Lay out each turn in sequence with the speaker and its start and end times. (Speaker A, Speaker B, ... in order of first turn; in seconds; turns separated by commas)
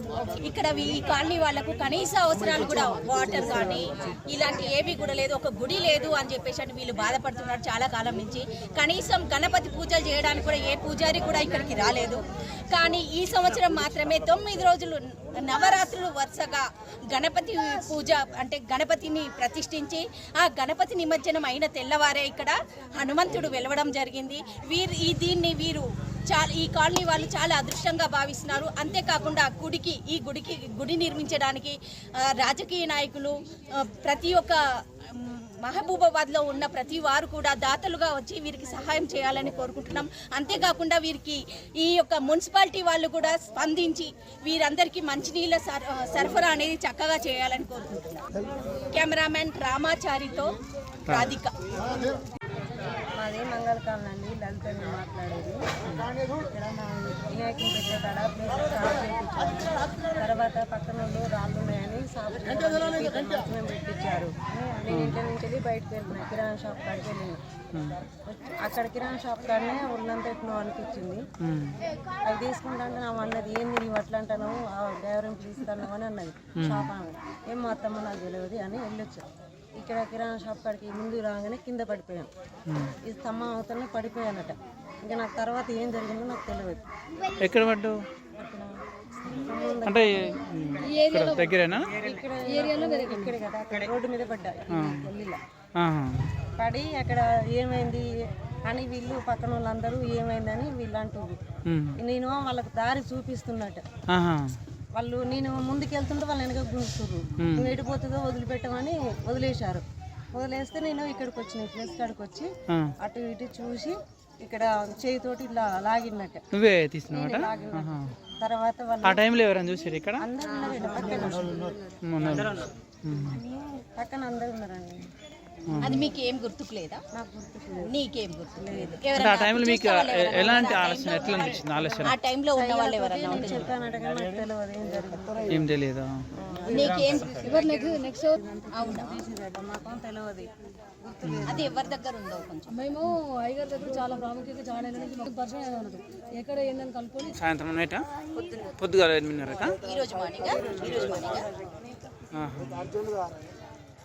Speaker A: 0.4-48.2, Speaker A: 48.9-51.5, Speaker B: 51.1-51.3, Speaker C: 53.1-55.6, Speaker C: 56.3-67.4, Speaker B: 64.9-65.2, Speaker B: 67.7-68.0, Speaker C: 68.2-71.2, Speaker B: 71.4-71.8, Speaker C: 72.2-79.2, Speaker B: 76.5-76.9, Speaker C: 79.8-82.3, Speaker B: 82.7-82.9, Speaker C: 83.0-86.8, Speaker B: 87.4-88.0, Speaker C: 88.4-90.4, Speaker B: 89.8-91.9, Speaker D: 90.9-91.5, Speaker C: 91.9-95.4, Speaker D: 92.5-93.3, Speaker B: 94.7-95.1, Speaker B: 95.8-96.3, Speaker C: 96.6-98.1, Speaker C: 98.7-101.3, Speaker B: 101.7-102.0, Speaker C: 102.0-103.8, Speaker B: 104.1-104.6, Speaker C: 104.9-112.5, Speaker B: 107.4-107.7, Speaker C: 113.0-116.4, Speaker B: 116.5-118.1, Speaker C: 117.1-119.2, Speaker B: 119.0-120.2, Speaker C: 120.2-121.9, Speaker B: 122.0-123.4, Speaker C: 123.2-125.1, Speaker B: 125.7-126.1, Speaker A: 125.8-127.0, Speaker C: 127.1-127.9, Speaker A: 127.9-133.7, Speaker C: 128.6-129.0, Speaker B: 129.2-132.2, Speaker C: 130.4-130.8, Speaker C: 131.5-135.7, Speaker B: 135.5-136.2, Speaker C: 136.3-140.5, Speaker A: 136.7-137.4, Speaker B: 136.9-137.5, Speaker D: 137.4-138.4, Speaker A: 138.7-139.1, Speaker C: 141.0-141.9, Speaker B: 141.2-141.6, Speaker A: 141.5-142.9, Speaker D: 142.8-147.3, Speaker B: 147.3-148.0, Speaker C: 148.3-148.7, Speaker B: 148.8-149.8, Speaker A: 149.7-151.5, Speaker B: 152.3-152.9